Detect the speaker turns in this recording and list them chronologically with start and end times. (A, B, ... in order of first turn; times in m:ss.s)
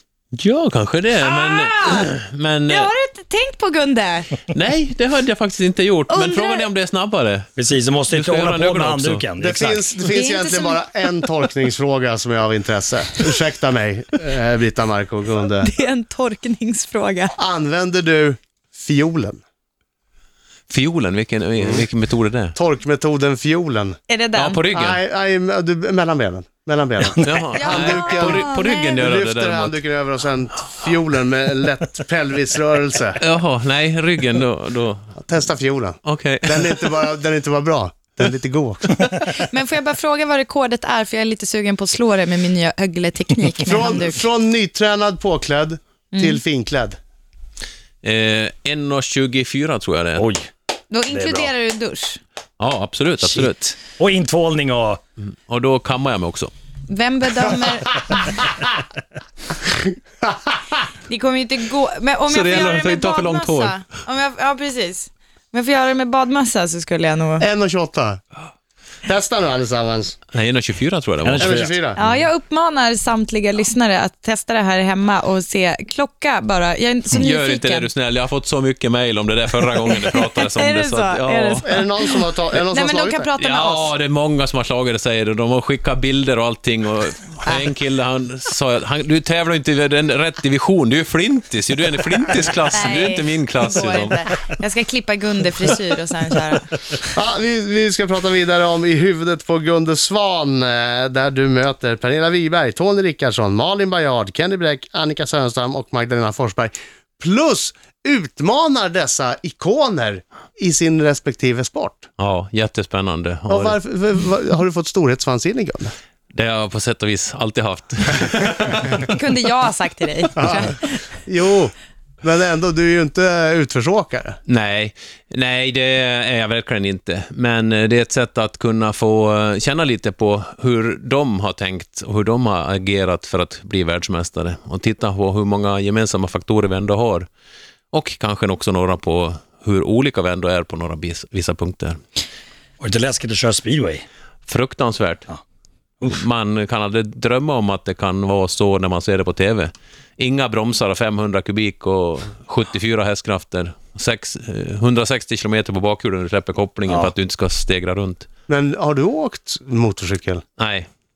0:00.3-0:02.9 A
0:01.2-0:02.1 B
0:02.7-0:04.4 B
0:04.5-0:07.5 A
0:06.1-0:06.7 B
0:07.6-0:09.8 C
0:08.1-0:09.2 A
0:09.4-0:15.7 D
0:10.1-0:10.8 B
0:15.6-0:17.3 B
0:17.4-0:19.4 D
0:20.7-0:22.5 A
0:21.6-0:21.8 D
0:22.5-0:24.0 D
0:24.1-0:24.6 B
0:24.4-0:25.0 A
0:24.7-0:33.2 D
0:27.2-0:29.7 A
0:27.5-0:29.0 B
0:33.2-0:35.1 A
0:35.2-0:39.1 D
0:36.0-0:36.9 A
0:39.3-0:44.2 B
0:43.6-0:47.0 D
0:46.1-0:46.4 B
0:48.0-0:50.2 A
0:50.2-0:50.5 C
0:50.9-0:52.2 B
0:51.1-0:51.5 C
0:52.6-0:53.7 A
0:53.2-0:55.0 C
0:55.2-0:56.5 A
0:56.9-0:58.4 B
1:00.2-1:00.8 D
1:01.1-1:07.4 B
1:02.3-1:03.8 A
1:07.4-1:08.2 D
1:09.0-1:10.2 D
1:10.3-1:11.7 A
1:11.2-1:11.7 C
1:11.4-1:12.0 D
1:12.0-1:17.9 B
1:17.1-1:21.6 A
1:19.9-1:23.9 B
1:21.6-1:23.3 D
1:23.4-1:34.2 A
1:32.7-1:36.7 B
1:37.1-1:52.1 D
1:52.2-1:53.8 A
1:53.5-1:55.9 D
1:56.3-1:59.1 A
1:59.1-2:01.0 B
2:00.4-2:04.4 D
2:04.5-2:17.3 A
2:17.9-2:22.0 A
2:22.8-2:24.0 C
2:24.5-2:25.3 A
2:26.0-2:38.3 A
2:38.5-2:40.4 D
2:40.6-2:40.9 A